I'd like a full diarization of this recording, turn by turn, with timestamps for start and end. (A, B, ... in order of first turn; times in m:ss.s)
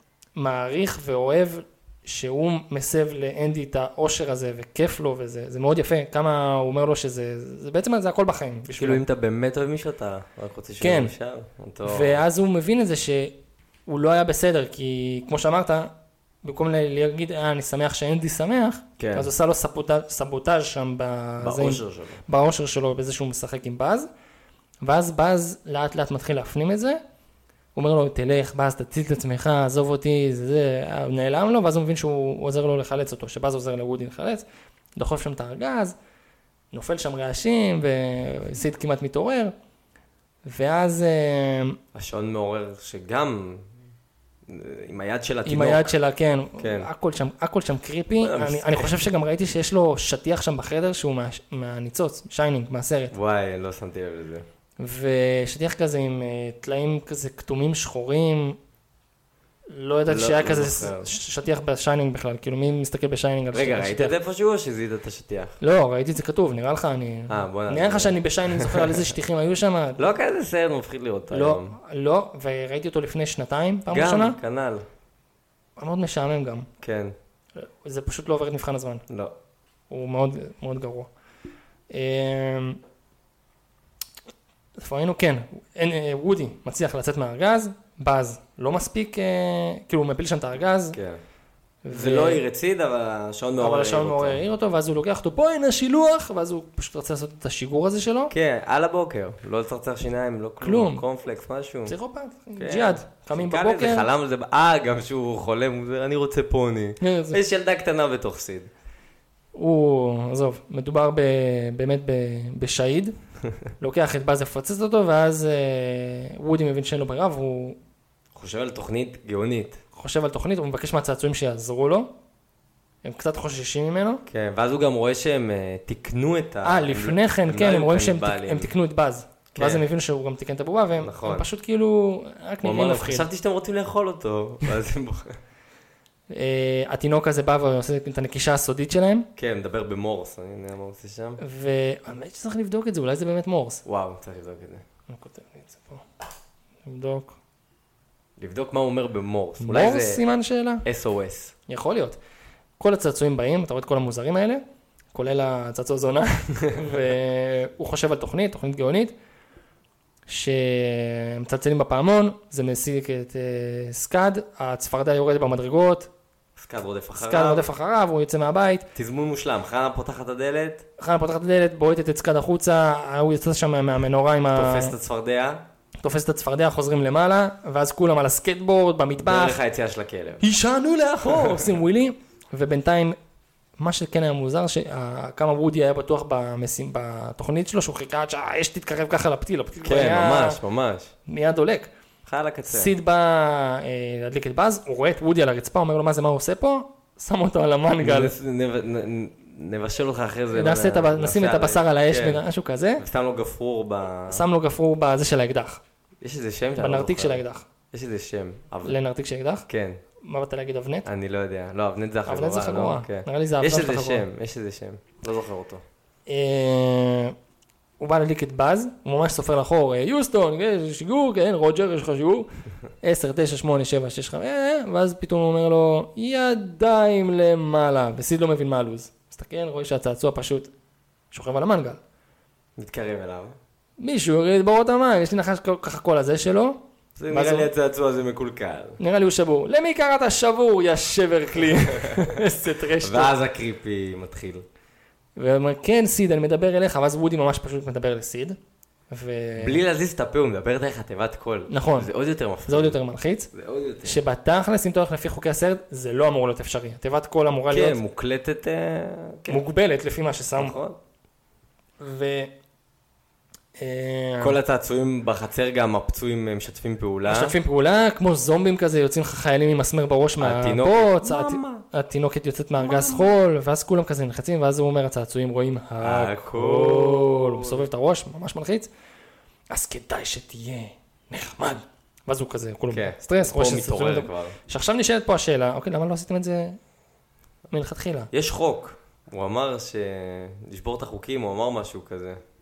0:00.4-0:09.0 A
0:08.8-0:12.2 B
0:10.8-0:11.1 A
0:11.8-0:13.3 A
0:13.9-0:24.1 A
0:19.0-0:19.3 B
0:21.4-0:22.2 B
0:24.8-0:27.0 A
0:27.7-0:34.4 A
0:35.0-0:36.0 A
0:36.7-0:39.5 A
0:40.4-0:41.8 A
0:41.9-0:43.7 B
0:44.5-0:45.9 B
0:45.4-0:53.1 A
0:46.6-0:46.9 B
0:48.2-0:49.1 B
0:53.1-0:54.4 B
0:54.8-0:58.6 A
0:59.7-1:04.1 A
1:00.1-1:01.1 B
1:03.5-1:05.6 B
1:05.6-1:10.1 A
1:07.3-1:09.1 B
1:10.0-1:11.8 B
1:11.3-1:14.4 A
1:13.9-1:14.8 B
1:15.8-1:16.7 A
1:16.8-1:17.1 B
1:17.6-1:19.0 A
1:19.1-1:19.3 B
1:19.9-1:21.1 A
1:21.9-1:22.8 A
1:24.8-1:31.0 A
1:30.9-1:31.2 B
1:31.8-1:32.4 A
1:31.9-1:34.4 B
1:33.6-1:38.3 A
1:38.3-1:41.9 B
1:40.6-1:41.0 A
1:41.8-1:44.1 A
1:42.6-1:48.7 B
1:47.0-1:47.4 A
1:49.5-1:53.1 A
1:53.8-1:57.8 A
1:58.3-1:59.8 B
1:59.9-2:02.1 A
2:03.0-2:04.2 A
2:04.2-2:08.7 B
2:06.6-2:13.3 A
2:09.5-2:09.8 B
2:11.0-2:11.5 B
2:12.6-2:15.4 B
2:16.3-2:19.3 A
2:19.4-2:21.4 B
2:21.4-2:23.8 A
2:23.8-2:24.8 B
2:25.1-2:26.0 A
2:26.8-2:27.4 A
2:28.4-2:30.2 B
2:29.6-2:30.8 A
2:30.8-2:31.5 B
2:31.7-2:32.2 A
2:32.8-2:34.6 A
2:35.1-2:39.1 A
2:40.3-2:46.1 A
2:46.6-2:47.7 B
2:47.2-2:48.9 A
2:48.9-2:50.8 B
2:51.0-2:54.9 A
2:54.5-2:55.6 B
2:56.0-2:59.6 A
2:59.2-3:00.4 B
3:00.4-3:03.2 A
3:01.2-3:01.7 B
3:03.8-3:10.6 A
3:09.8-3:11.1 B
3:11.2-3:11.9 A
3:12.2-3:12.9 B
3:12.7-3:18.3 A
3:18.0-3:22.4 B
3:20.5-3:23.0 A
3:23.0-3:24.4 B
3:24.3-3:25.8 A
3:26.2-3:29.0 B
3:26.8-3:27.6 A
3:28.8-3:29.6 A
3:29.7-3:30.0 B
3:30.2-3:31.1 A
3:31.0-3:35.8 B
3:32.3-3:34.2 A
3:36.3-3:37.3 A
3:38.0-3:42.5 A
3:43.0-3:50.7 A
3:51.3-3:52.0 A
3:52.8-3:53.6 B
3:54.0-3:57.7 A
3:57.2-3:59.0 B
3:59.0-4:03.4 A
4:01.9-4:02.4 B
4:03.0-4:04.6 B
4:05.4-4:08.6 A
4:09.1-4:09.8 A
4:09.6-4:13.0 B
4:11.7-4:12.1 A
4:12.7-4:13.5 A
4:13.5-4:14.2 B
4:14.0-4:18.0 A
4:17.7-4:19.6 B
4:19.5-4:20.8 A
4:20.6-4:21.0 B
4:22.0-4:22.5 A
4:23.8-4:24.6 A
4:24.4-4:27.5 B
4:27.2-4:38.9 A
4:30.4-4:31.8 B
4:32.8-4:33.3 B
4:36.0-4:37.8 B
4:39.7-4:46.8 A
4:42.9-4:44.6 B
4:47.7-4:48.3 A
4:48.3-4:52.4 B